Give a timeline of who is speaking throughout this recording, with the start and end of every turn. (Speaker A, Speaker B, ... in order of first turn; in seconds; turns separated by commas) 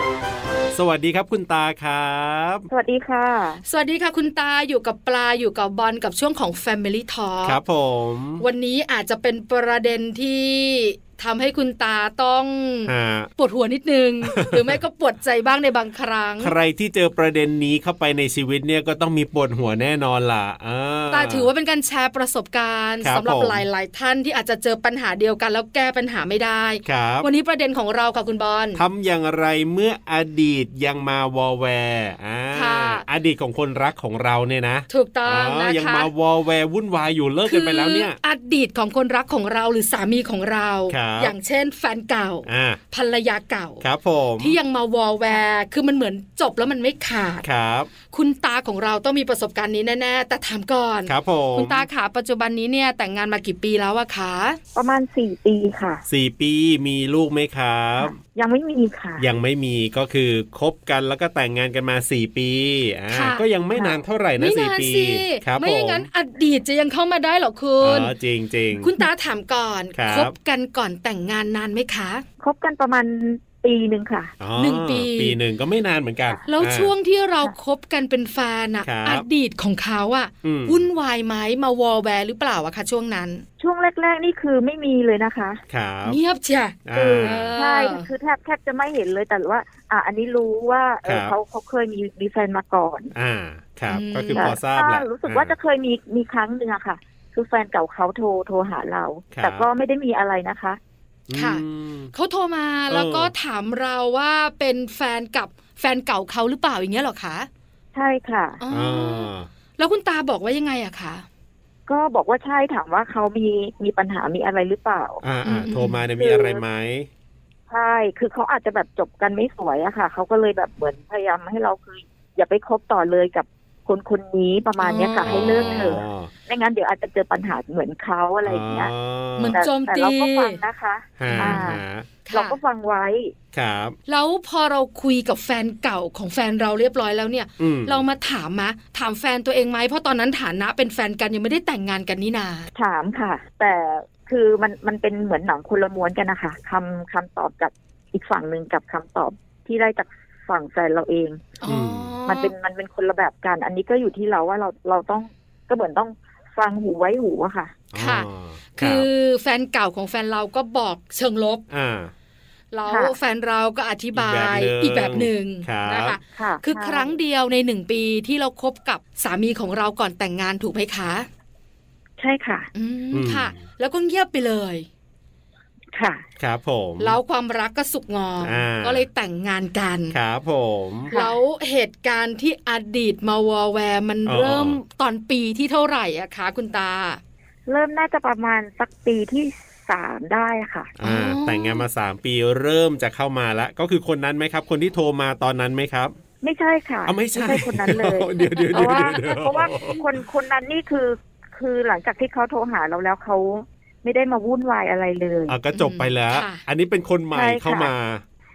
Speaker A: 0.7-2.7, Speaker B: 2.7-3.6, Speaker C: 3.7-7.6, Speaker A: 7.4-8.4, Speaker C: 8.4-16.5, Speaker A: 12.9-13.3, Speaker A: 14.2-14.8, Speaker A: 16.4-21.5, Speaker C: 21.1-28.8, Speaker A: 23.0-23.6, Speaker A: 26.9-27.3, Speaker A: 28.8-38.2, Speaker C: 32.5-33.0, Speaker C: 34.9-36.1, Speaker C: 37.5-43.8, Speaker A: 40.9-41.3, Speaker A: 42.5-42.8, Speaker A: 43.8-44.6, Speaker C: 44.4-47.5, Speaker A: 47.4-47.9, Speaker C: 48.1-54.6, Speaker A: 51.1-51.9, Speaker B: 54.8-56.0, Speaker A: 56.1-58.1, Speaker B: 58.0-59.2, Speaker A: 59.2-66.1, Speaker C: 63.1-63.4, Speaker B: 63.7-64.0, Speaker C: 64.4-68.1, Speaker A: 67.8-68.9, Speaker C: 68.8-72.2, Speaker A: 70.0-70.3, Speaker B: 72.4-74.3, Speaker A: 74.4-76.9, Speaker C: 74.6-75.4, Speaker C: 76.5-83.5, Speaker A: 78.8-79.3, Speaker A: 80.4-80.8, Speaker B: 83.6-85.6, Speaker A: 85.7-86.2, Speaker C: 86.0-88.1, Speaker A: 86.9-87.5, Speaker B: 86.9-93.1, Speaker A: 91.0-91.3, Speaker A: 93.2-95.5, Speaker C: 93.9-94.6, Speaker B: 94.4-100.8, Speaker A: 99.3-99.7, Speaker A: 101.3-102.1, Speaker C: 101.3-107.5, Speaker A: 102.9-103.3, Speaker B: 107.9-108.6, Speaker C: 108.6-111.3, Speaker A: 108.7-109.5, Speaker B: 111.9-115.2, Speaker A: 115.2-117.1, Speaker C: 115.4-116.0, Speaker B: 116.2-116.6, Speaker B: 117.7-128.9, Speaker C: 124.8-126.0, Speaker A: 125.2-126.3, Speaker A: 128.4-129.6, Speaker C: 129.4-130.6, Speaker B: 129.5-131.8, Speaker A: 131.2-132.1, Speaker C: 131.2-132.6, Speaker B: 132.3-133.3, Speaker A: 133.5-134.0, Speaker C: 134.1-142.7, Speaker A: 137.6-138.0, Speaker B: 142.8-151.6, Speaker C: 151.6-152.5, Speaker A: 151.7-152.2, Speaker B: 152.3-157.8, Speaker A: 157.9-159.1, Speaker C: 157.9-161.6, Speaker A: 161.7-162.1, Speaker C: 162.7-171.3, Speaker B: 162.9-163.1, Speaker A: 164.1-166.2, Speaker B: 166.4-167.2, Speaker B: 172.2-172.7, Speaker C: 172.8-174.9, Speaker A: 173.1-173.6, Speaker B: 175.9-176.2, Speaker A: 176.4-177.2, Speaker C: 177.0-180.2, Speaker A: 178.4-179.1, Speaker A: 180.1-181.1, Speaker B: 181.1-181.4, Speaker C: 181.1-187.2, Speaker A: 184.3-184.8, Speaker B: 187.7-190.9, Speaker A: 191.0-196.1, Speaker C: 191.0-191.8, Speaker B: 196.4-205.6, Speaker A: 197.1-200.1, Speaker C: 198.5-200.0, Speaker A: 205.5-208.2, Speaker C: 205.7-206.6, Speaker B: 207.3-207.9